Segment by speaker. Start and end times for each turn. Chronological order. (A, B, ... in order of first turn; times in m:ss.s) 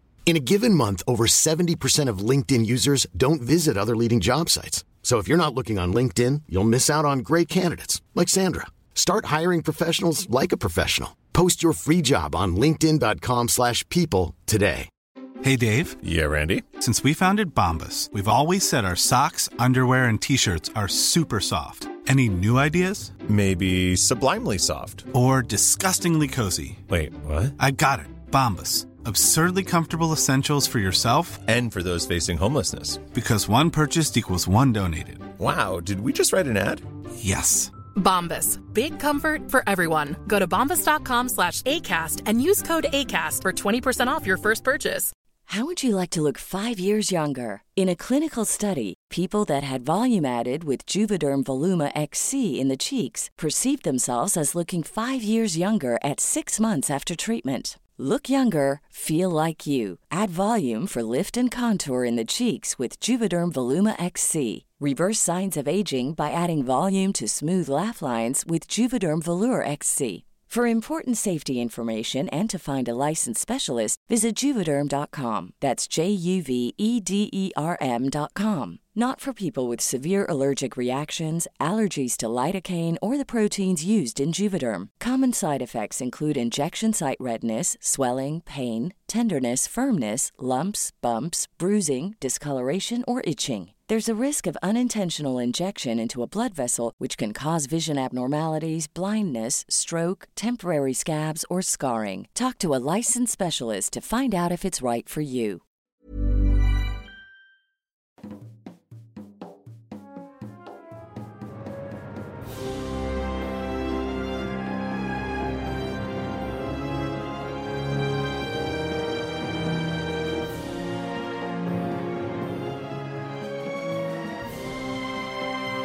0:00.2-0:14.9 A
0:15.4-0:16.0 B
0:16.0-0:16.7 C
0:16.8-0:23.2 B
0:23.2-0:25.1 C
0:25.1-0:26.8 B
0:26.9-0:27.5 C
0:27.6-0:31.4 B
0:31.4-0:33.0 C
0:33.1-0:35.3 B
0:35.4-0:36.8 C
0:37.2-0:37.7 B
0:37.9-0:45.1 D
0:45.5-1:45.6 E